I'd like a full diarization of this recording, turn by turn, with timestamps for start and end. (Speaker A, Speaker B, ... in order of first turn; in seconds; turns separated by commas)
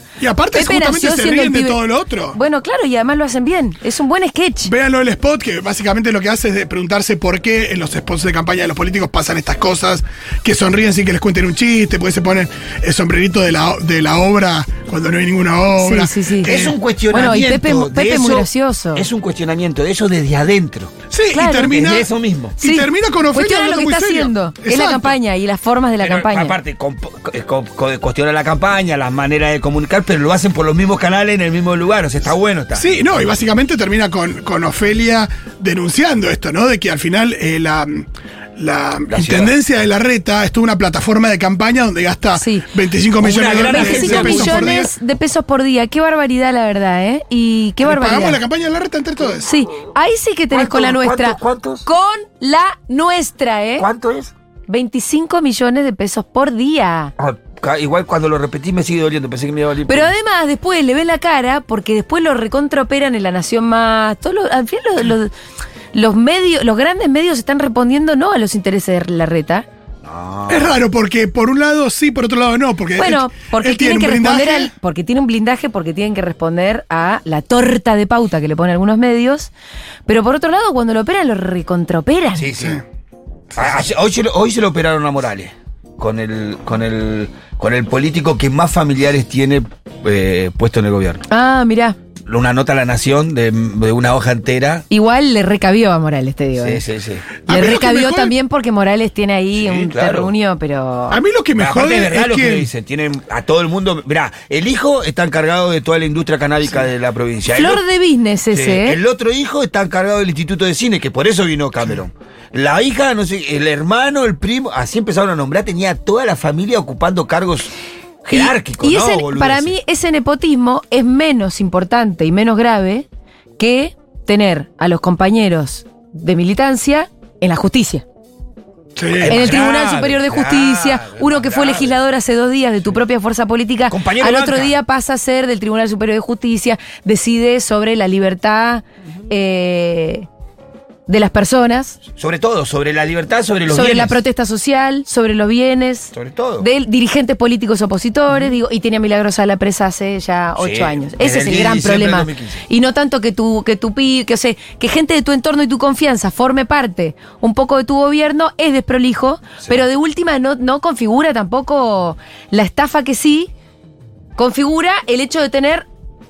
Speaker A: 0.2-2.4, Speaker B: 0.5-1.8, Speaker B: 2.3-4.7, Speaker A: 4.6-16.8, Speaker B: 15.7-19.1, Speaker C: 16.4-20.9, Speaker A: 21.1-25.1, Speaker B: 21.3-21.7, Speaker C: 21.7-22.6, Speaker B: 22.6-26.6, Speaker C: 26.0-33.0, Speaker A: 32.7-44.9, Speaker C: 39.1-39.5, Speaker B: 42.4-42.7, Speaker C: 43.2-44.8, Speaker B: 43.6-48.4, Speaker A: 47.8-49.5, Speaker B: 49.4-53.9, Speaker C: 50.5-51.9, Speaker C: 53.8-54.3, Speaker B: 54.7-57.1, Speaker C: 57.2-60.1, Speaker B: 59.9-65.3, Speaker B: 65.9-69.7, Speaker C: 70.0-70.8, Speaker A: 70.5-74.7, Speaker B: 73.0-79.5, Speaker B: 80.1-82.5, Speaker C: 82.3-82.8, Speaker C: 83.5-91.2, Speaker B: 91.3-92.0, Speaker C: 92.2-94.8, Speaker B: 94.9-96.8, Speaker C: 96.6-97.2, Speaker A: 97.5-98.3, Speaker B: 97.5-101.2, Speaker C: 99.5-100.3, Speaker A: 101.1-102.7, Speaker C: 101.5-107.8, Speaker B: 107.5-109.0, Speaker C: 108.5-117.7, Speaker C: 118.2-119.8, Speaker B: 118.3-123.1, Speaker B: 123.6-128.0, Speaker A: 128.9-129.4, Speaker C: 129.1-132.0, Speaker B: 129.3-140.3, Speaker C: 133.9-134.8, Speaker B: 141.1-142.0, Speaker C: 142.1-144.2, Speaker B: 143.7-163.5, Speaker C: 146.1-146.7, Speaker C: 150.6-152.6, Speaker B: 164.4-165.9